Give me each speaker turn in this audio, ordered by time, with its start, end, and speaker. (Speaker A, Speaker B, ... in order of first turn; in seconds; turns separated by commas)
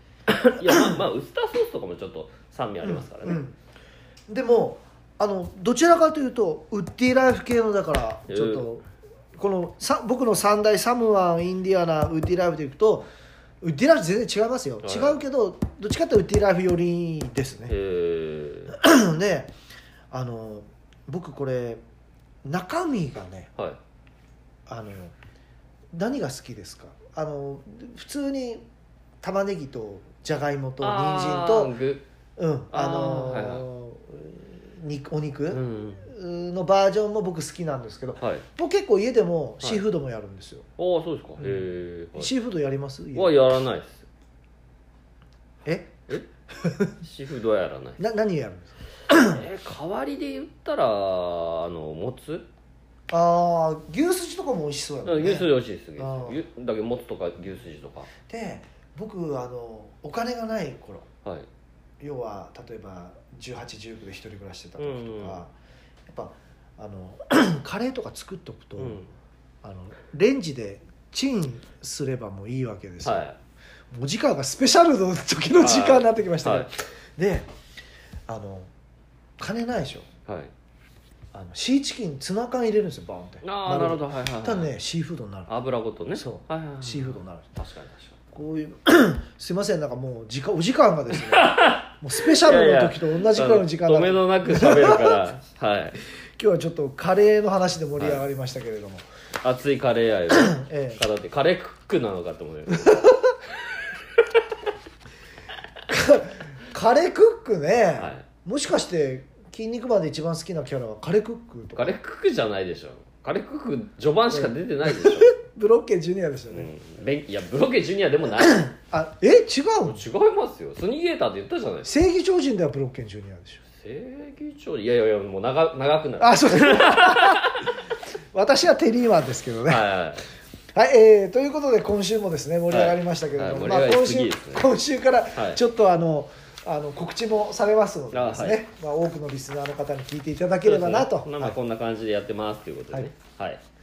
Speaker A: 0.3-3.4, Speaker B: 0.7-1.0, Speaker B: 2.8-3.5, Speaker B: 4.3-8.8, Speaker A: 8.3-8.7, Speaker B: 9.3-13.1, Speaker B: 13.6-17.7, Speaker A: 14.8-15.2, Speaker A: 17.7-18.7, Speaker B: 18.7-19.5, Speaker B: 20.1-21.8, Speaker B: 22.4-23.5, Speaker B: 24.7-25.1, Speaker B: 25.9-28.6, Speaker B: 29.2-31.7, Speaker A: 30.8-32.0, Speaker B: 32.4-40.7, Speaker A: 32.7-33.7, Speaker A: 35.5-36.0, Speaker A: 38.2-38.4, Speaker A: 40.8-42.3, Speaker B: 41.4-43.5, Speaker A: 43.1-44.0, Speaker B: 45.6-46.9, Speaker A: 47.0-48.0, Speaker B: 48.0-49.4, Speaker A: 49.1-52.5, Speaker B: 53.1-56.4, Speaker A: 55.0-58.1, Speaker B: 58.3-61.1, Speaker B: 62.0-65.5, Speaker A: 64.8-65.4, Speaker B: 66.1-69.0, Speaker A: 68.8-69.1, Speaker B: 69.6-73.2, Speaker A: 73.0-73.4, Speaker B: 73.9-77.5, Speaker A: 75.6-76.7, Speaker B: 78.3-78.7, Speaker B: 79.4-80.1, Speaker B: 81.3-85.5, Speaker A: 83.4-84.7, Speaker A: 85.5-88.2, Speaker B: 86.1-87.5, Speaker B: 88.3-95.2, Speaker A: 91.1-96.0, Speaker B: 96.3-99.0, Speaker A: 99.4-103.1, Speaker B: 100.3-101.0, Speaker B: 102.8-103.3, Speaker B: 105.9-111.9, Speaker A: 108.0-108.2, Speaker A: 111.8-115.4, Speaker B: 114.3-116.7, Speaker A: 116.5-118.7, Speaker B: 118.3-120.1, Speaker A: 119.8-121.9, Speaker B: 121.8-123.6, Speaker A: 123.7-127.7, Speaker B: 126.2-127.5, Speaker B: 128.3-129.8, Speaker A: 129.7-130.3, Speaker B: 130.7-141.6, Speaker A: 132.7-134.7, Speaker A: 135.3-135.6, Speaker A: 138.1-138.6, Speaker A: 140.6-143.6